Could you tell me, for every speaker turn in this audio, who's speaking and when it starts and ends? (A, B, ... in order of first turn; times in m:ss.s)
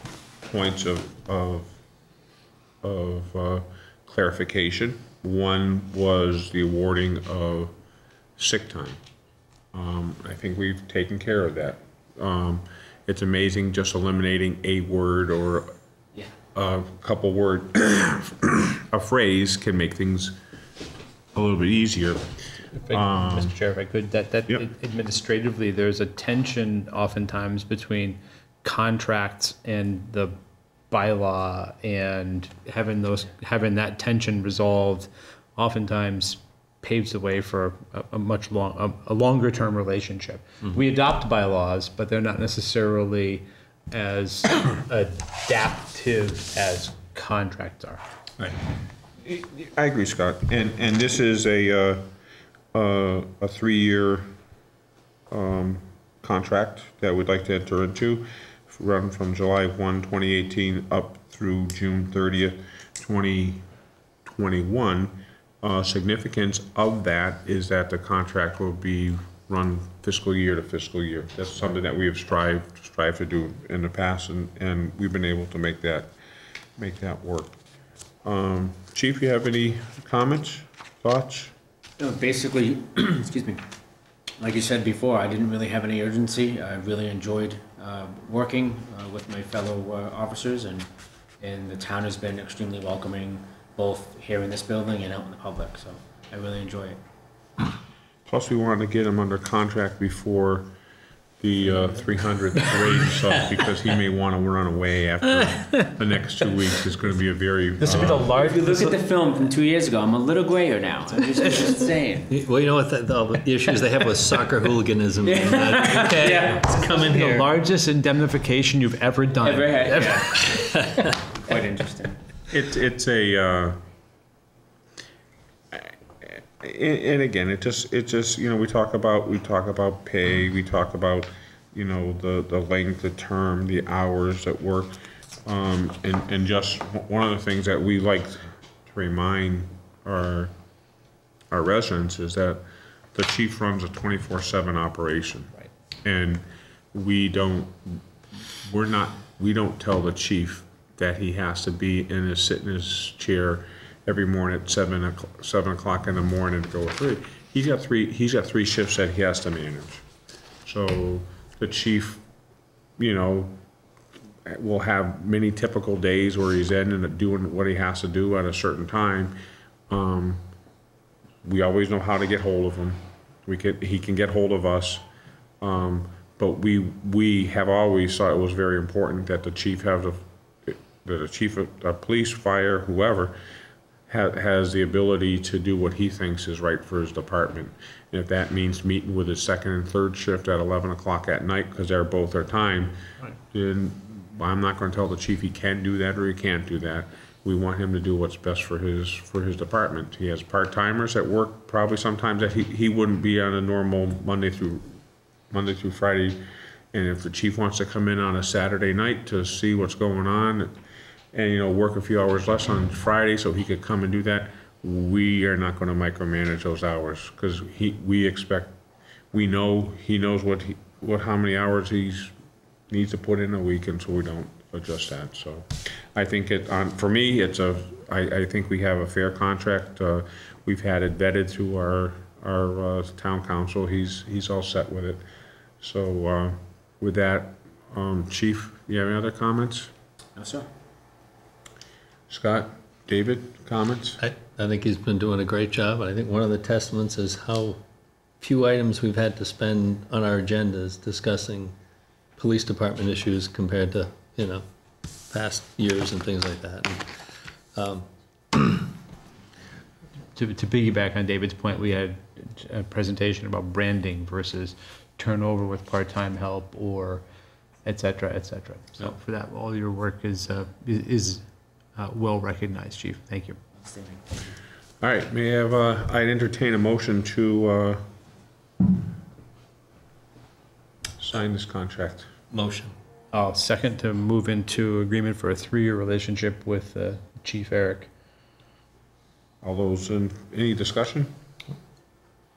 0:00.4-0:01.8 A
0:02.8-0:07.7 A
0:08.4-0:09.0 A
0:09.7-0:15.7 A
0:16.5-0:20.3 A
0:21.3-0:22.4 A
0:22.7-0:30.4 B
0:22.9-0:23.5 A
0:30.9-0:48.0 B
0:49.2-0:52.1 A
0:52.7-0:54.3 A
0:55.3-1:03.6 A
1:04.2-1:16.1 A
1:16.8-1:17.6 A
1:18.2-1:21.5 A
1:22.0-1:23.6 C
1:24.4-1:30.9 C
1:31.4-1:37.0 C
1:38.3-1:40.7 A
1:41.4-1:48.3 A
1:42.8-1:43.3 D
1:45.4-1:45.9 D
1:47.8-1:49.0 B
1:47.9-1:52.3 C
1:51.4-1:51.9 B
1:52.3-1:57.5 D
1:55.2-1:57.4 C
1:57.0-2:00.8 B
1:59.4-2:00.6 C
1:59.9-2:01.1 D
2:01.4-2:02.2 C
2:02.5-2:03.8 A
2:05.7-2:20.5 A
2:21.5-2:22.6 A
2:23.1-2:25.5 A
2:26.0-2:28.0 A
2:28.6-2:40.0 A
2:40.6-2:42.2 A
2:43.0-2:43.6 A
2:44.4-2:49.4 A
2:49.9-2:50.4 A
2:51.4-2:55.0 A
2:55.6-3:03.4 A
3:04.1-3:25.0 A
3:25.5-3:26.4 A
3:26.9-3:30.8 A
3:31.3-3:38.8 A
3:39.3-3:42.3 A
3:42.9-3:55.2 A
3:55.8-3:59.9 A
4:00.4-4:00.7 C
4:02.3-4:04.2 A
4:04.2-4:07.8 D
4:08.4-4:11.7 D
4:12.4-4:14.6 D
4:15.3-4:18.9 D
4:20.4-4:27.2 B
4:27.8-4:31.4 B
4:32.0-4:33.6 B
4:33.8-4:34.6 C
4:35.0-4:38.1 A
4:41.2-4:42.3 A
4:42.5-4:42.9 D
4:43.3-4:48.1 B
4:49.6-4:51.3 A